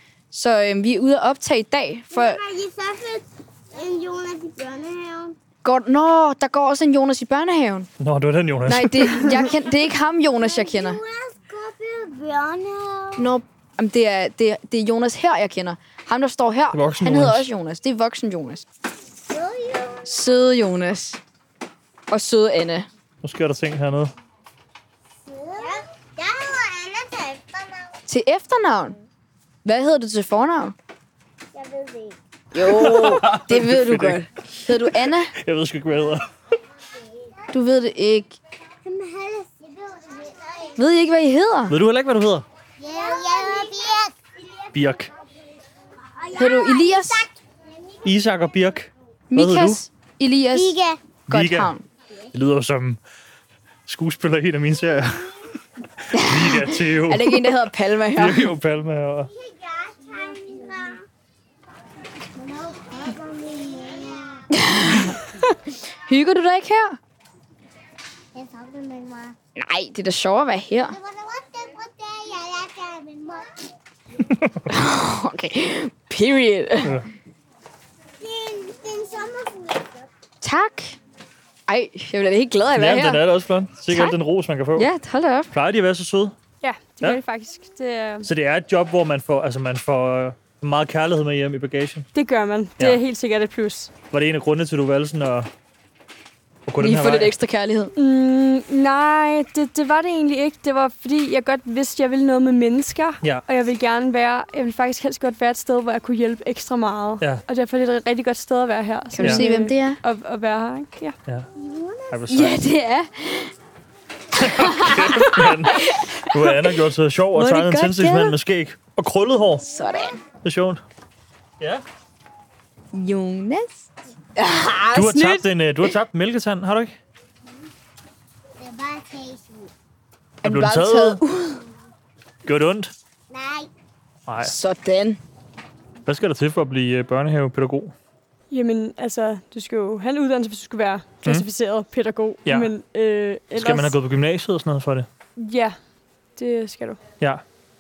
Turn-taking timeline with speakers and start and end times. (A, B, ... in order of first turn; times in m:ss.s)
0:00.3-0:02.4 A
0:02.1-0:05.4 B
0:05.6-0:07.9 A
0:08.0-0:09.2 C
0:08.6-0:11.0 A
0:10.4-0:13.2 B
0:13.2-0:18.6 A
0:16.7-0:17.5 C
0:19.3-0:20.1 B
0:20.0-0:21.2 A
0:22.1-0:22.9 A
0:23.2-0:24.1 C
0:25.3-0:27.9 B
0:28.1-0:29.0 A
0:29.6-0:30.8 A
0:31.5-0:32.2 B
0:32.5-0:35.3 A
0:32.6-0:36.2 C
0:37.5-0:38.4 A
0:38.8-0:40.7 B
0:40.8-0:41.8 A
0:41.7-0:42.4 C
0:42.8-0:44.1 B
0:44.7-0:45.1 C
0:46.2-0:47.3 B
0:46.4-0:47.3 A
0:48.0-0:49.8 C
0:49.3-0:51.8 A
0:50.5-0:51.0 B
0:51.3-0:51.7 C
0:52.3-0:53.0 C
0:53.8-0:55.3 C
0:56.0-0:57.5 C
0:56.1-0:58.5 A
0:58.1-0:59.3 C
0:59.3-1:01.0 B
1:02.4-1:04.4 B
1:04.5-1:07.0 A
1:08.3-1:09.4 B
1:09.5-1:11.0 A
1:10.9-1:13.6 B
1:14.2-1:14.7 C
1:14.7-1:17.0 A
1:16.8-1:17.1 C
1:18.2-1:20.0 B
1:20.4-1:21.0 A
1:21.7-1:23.2 A
1:22.8-1:24.9 C
1:23.9-1:24.2 A
1:24.7-1:25.5 A
1:25.5-1:26.3 C
1:26.6-1:28.3 D
1:28.2-1:32.1 C
1:32.1-1:33.9 D
1:34.1-1:35.5 C
1:36.6-1:37.3 C
1:36.8-1:37.9 A
1:38.0-1:51.2 D
1:49.1-1:50.0 A
1:51.6-1:52.1 B
1:52.1-1:52.6 C
1:52.3-1:53.5 A
1:54.3-1:59.6 C
1:54.5-1:56.7 A
1:57.3-1:58.4 A
1:59.6-2:00.2 A
2:00.4-2:00.8 C
2:02.9-2:05.5 A
2:04.9-2:07.0 C
2:08.6-2:09.7 B
2:10.4-2:11.6 A
2:10.4-2:11.2 C
2:12.4-2:12.9 C
2:13.3-2:13.7 B
2:14.3-2:14.5 C
2:14.4-2:15.2 A
2:16.0-2:17.9 C
2:18.5-2:24.0 D
2:22.4-2:22.7 C
2:23.6-2:25.1 C
2:25.4-2:25.8 D
2:26.4-2:27.0 D